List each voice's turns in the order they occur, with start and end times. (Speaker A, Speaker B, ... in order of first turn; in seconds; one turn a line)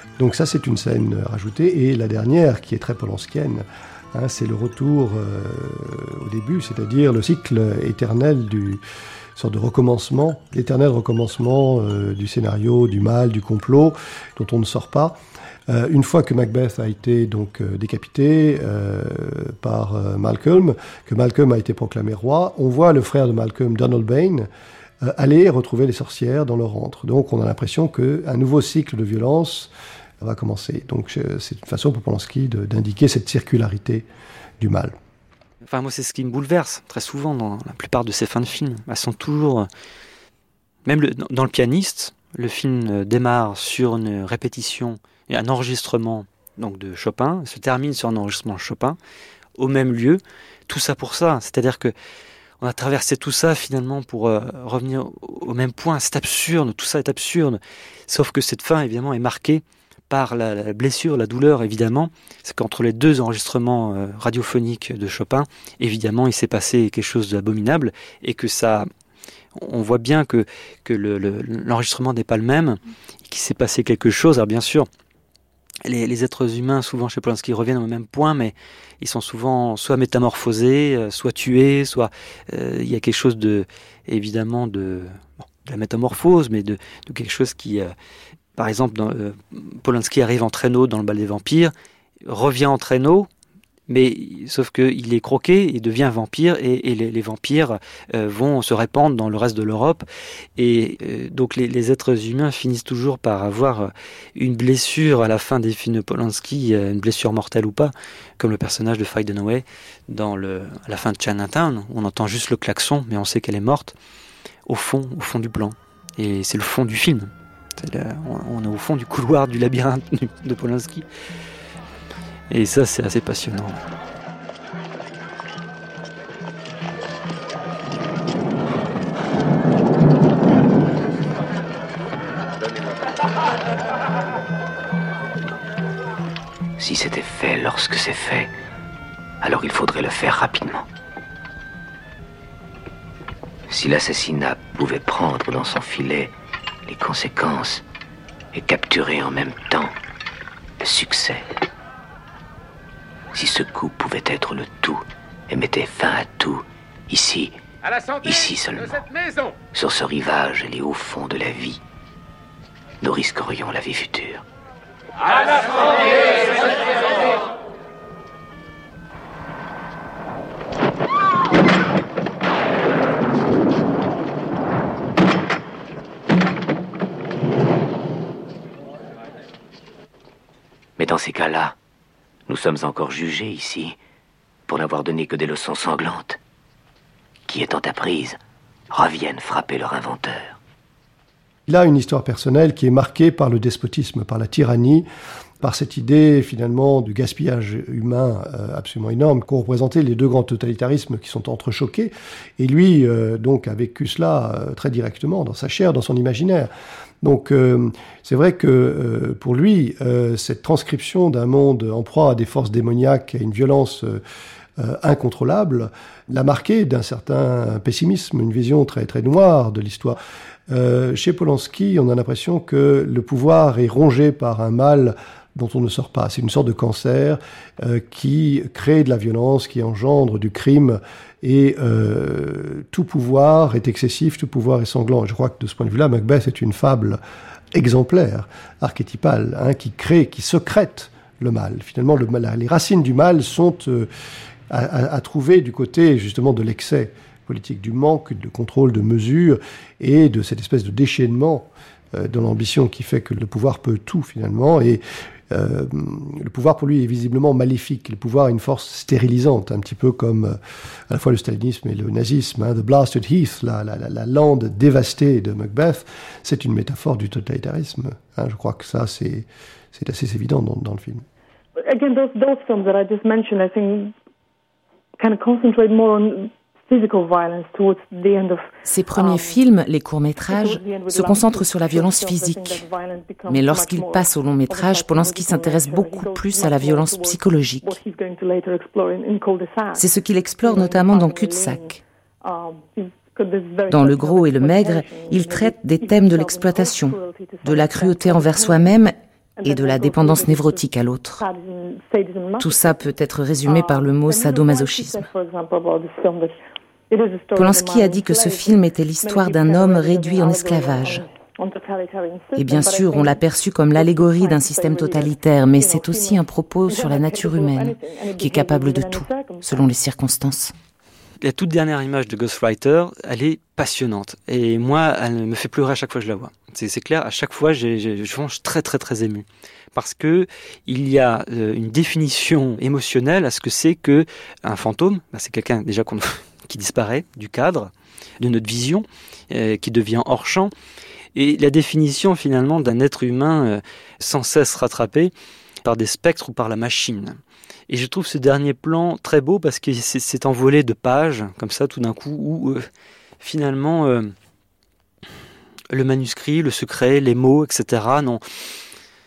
Speaker A: 0.2-8.8
Speaker A: 9.3-15.2
Speaker A: 15.7-24.5
Speaker A: 25.0-34.0
Speaker A: 34.6-34.9
Speaker B: 35.7-39.7
Speaker B: 40.8-49.0
Speaker B: 49.6-51.9
Speaker B: 52.6-68.9
Speaker B: 69.5-74.9
Speaker B: 75.8-87.9
Speaker B: 88.5-91.7
Speaker B: 92.2-93.3
Speaker B: 93.9-100.0
Speaker B: 100.6-113.9
Speaker B: 114.7-121.0
Speaker B: 122.5-123.8
Speaker C: 136.8-138.5
Speaker C: 139.4-140.8
Speaker C: 143.7-146.3
Speaker C: 146.8-147.8
Speaker C: 148.5-149.9
Speaker C: 150.8-151.5
Speaker C: 153.3-157.6
Speaker C: 158.2-159.0
Speaker C: 159.7-161.8
Speaker C: 163.0-164.4
Speaker C: 181.0-181.7
Speaker C: 182.5-183.9
Speaker C: 184.7-186.4
Speaker C: 187.5-188.4
Speaker C: 188.9-190.6
Speaker A: 191.7-195.1
Speaker A: 195.6-206.7
Speaker A: 207.2-214.2
Speaker A: 214.8-220.2
Speaker A: 220.7-237.2
Speaker A: 237.7-244.1
Speaker A: 244.7-260.6
Speaker A: 261.1-271.2
Speaker D: 271.8-274.1
Speaker D: 275.2-279.6
Speaker E: 278.8-282.8
Speaker D: 280.5-290.1
Speaker E: 283.5-288.0
Speaker E: 290.0-292.0
Speaker D: 290.6-298.9
Speaker E: 293.9-301.4
Speaker D: 299.6-300.8
Speaker D: 301.4-303.1
Speaker E: 302.6-305.3
Speaker D: 303.6-306.5
Speaker D: 307.1-313.4
Speaker E: 307.5-311.2
Speaker E: 312.6-320.7
Speaker D: 313.9-319.9
Speaker B: 321.4-340.7
Speaker B: 341.3-345.3
Speaker B: 345.8-352.9
Speaker B: 353.4-354.3
Speaker B: 355.9-358.4